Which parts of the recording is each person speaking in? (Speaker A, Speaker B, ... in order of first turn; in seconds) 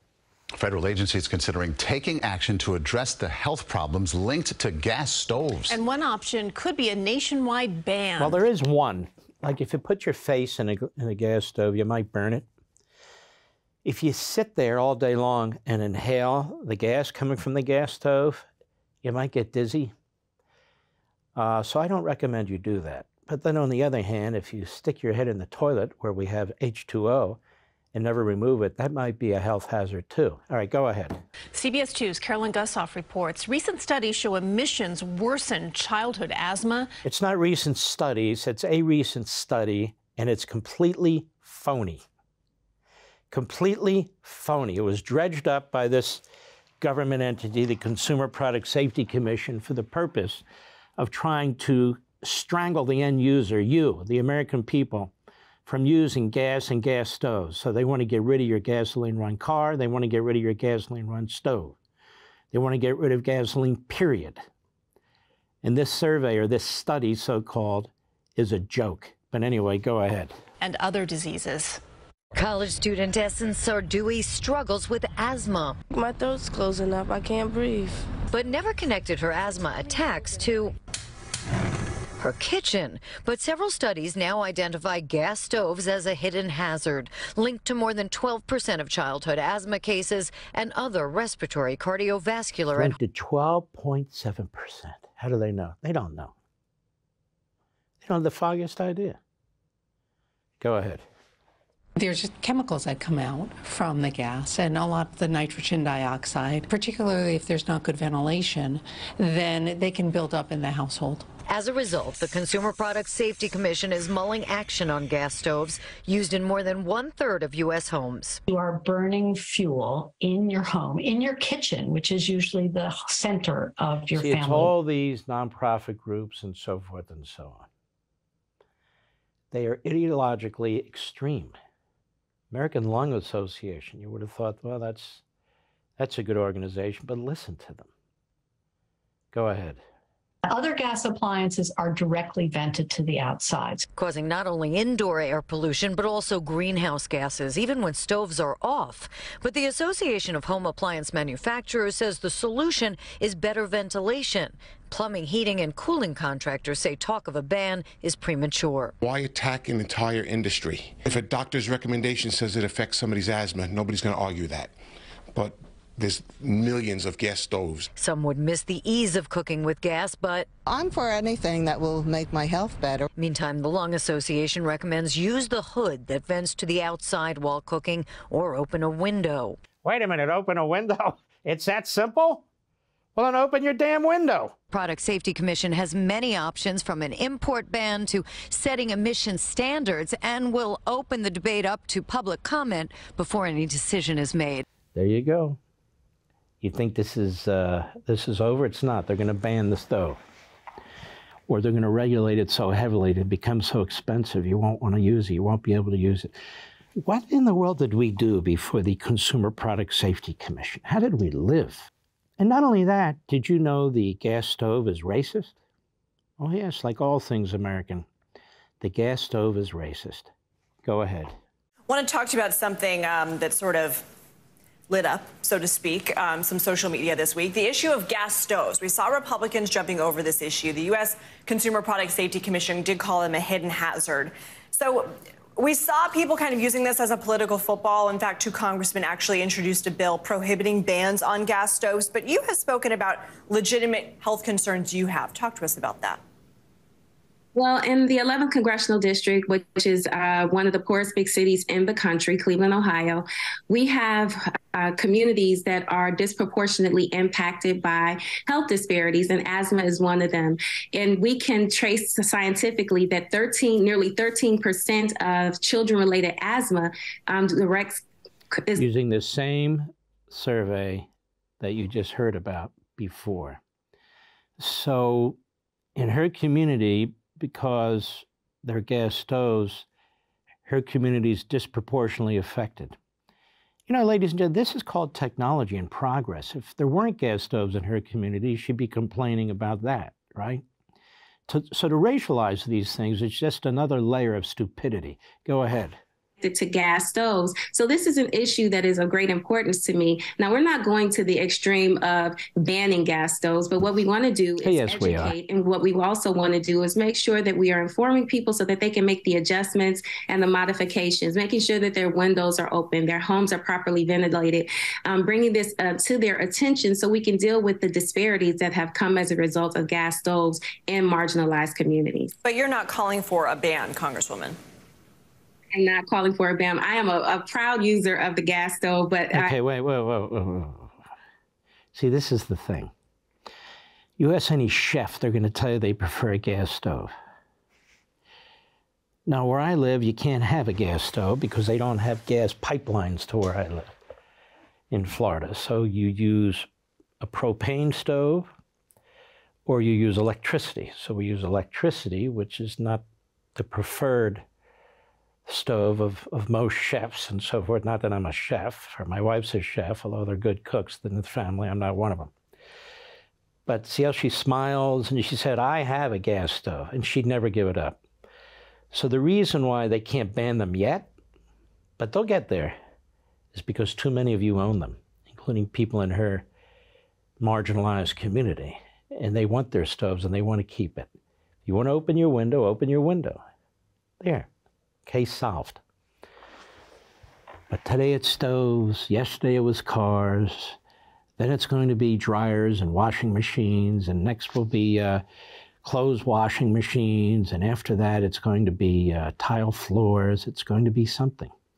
Speaker A: 0.6-5.8
Speaker B: 5.7-8.4, 31.5-36.9, 70.6-71.8
Speaker C: 8.2-12.5, 13.8-18.4, 19.0-19.9, 21.4-27.4, 27.9-31.2, 37.0-42.0, 43.3-46.2, 46.8-50.4, 51.0-55.1, 55.6-61.8, 62.5-64.4, 65.6-70.3, 92.8-96.3, 98.0-99.2, 100.6-101.0, 124.2-127.7, 129.5-131.6, 132.5-135.2, 136.0-137.9, 139.3-139.8, 179.8-182.4, 183.2-184.5, 194.9-195.6, 196.6-200.2, 201.5-206.3, 207.0-215.5, 216.4-218.1, 218.8-220.3, 220.8-221.3, 268.8-271.1, 271.6-273.6, 274.6-275.4, 276.0-279.9, 280.7-283.0, 283.9-290.6, 291.5-296.0, 304.6-305.4, 329.3-330.9, 331.9-332.9, 334.2-337.1, 339.3-343.9, 344.9-346.7, 347.2-348.5, 349.7-353.0, 353.6-354.4, 355.5-362.3, 363.7-368.0, 368.9-371.1, 372.0-372.8, 373.5-376.4, 377.4-381.1, 381.7-383.4, 384.2-384.5, 385.1-385.8, 387.7-390.8, 391.4-395.2, 395.8-401.5
Speaker D: 72.5-75.8, 78.4-80.7, 82.3-92.9, 111.6-118.3, 145.4-149.0, 149.8-154.5, 155.2-158.7, 168.4-169.3, 174.8-175.1, 176.5-178.2, 185.0-194.5
Speaker E: 75.9-78.1
Speaker F: 102.0-111.3
Speaker G: 118.5-124.7, 140.4-143.9
Speaker H: 159.0-164.7, 165.3-167.9
Speaker I: 170.7-173.1
Speaker J: 221.9-224.1, 224.9-246.2, 322.4-324.6
Speaker K: 247.6-268.0, 268.6-268.8, 296.4-322.3, 325.7-329.5